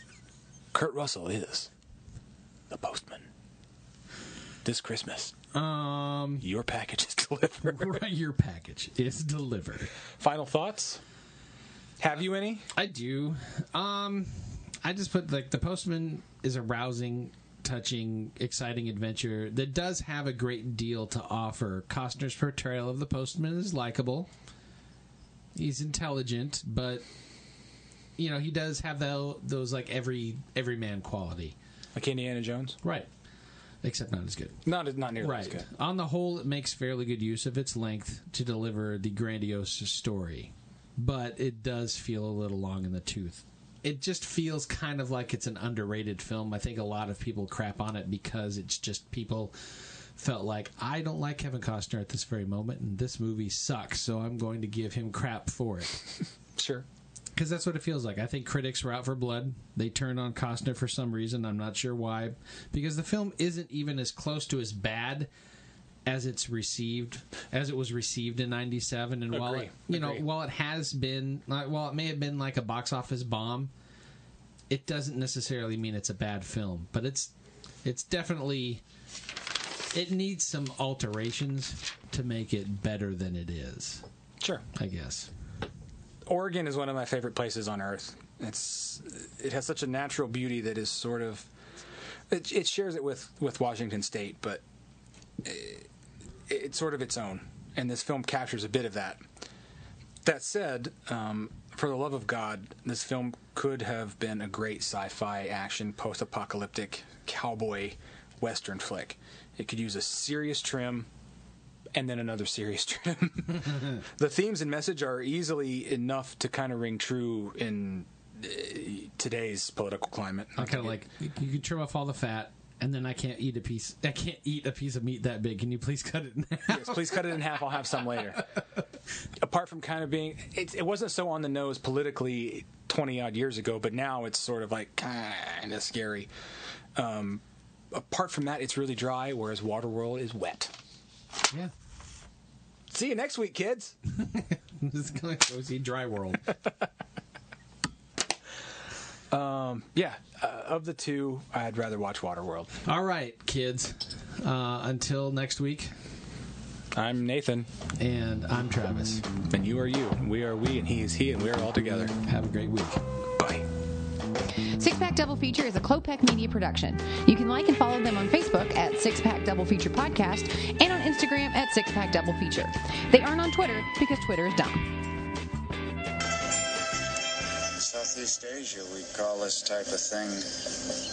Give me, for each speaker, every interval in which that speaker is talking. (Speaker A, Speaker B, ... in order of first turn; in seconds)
Speaker A: 0.7-1.7, 2.7-3.2, 4.6-5.3, 6.4-8.0, 10.2-11.0, 12.0-12.7, 31.9-32.8, 34.6-35.6, 56.6-56.8, 69.3-70.2, 84.4-84.6, 86.2-91.5, 92.3-94.6, 95.4-95.8, 96.5-99.2, 100.2-111.1, 111.9-121.0, 126.7-128.4, 129.4-136.3, 136.9-140.7, 142.9-143.9, 149.3-152.7, 156.9-157.7, 159.5-162.2, 163.4-163.7
Speaker B: 5.5-6.4, 7.6-9.9, 12.7-24.3, 25.6-27.0, 28.2-31.5, 32.8-33.1, 33.8-34.6, 35.2-56.1, 57.3-65.3, 66.0-73.7, 74.7-77.3, 77.8-78.8, 79.9-84.0, 84.7-85.3, 120.6-127.6, 128.2-128.8, 144.1-146.5, 152.8-155.9, 158.0-159.2, 162.2-163.0
Speaker C: 164.8-175.0
Speaker D: 177.7-180.7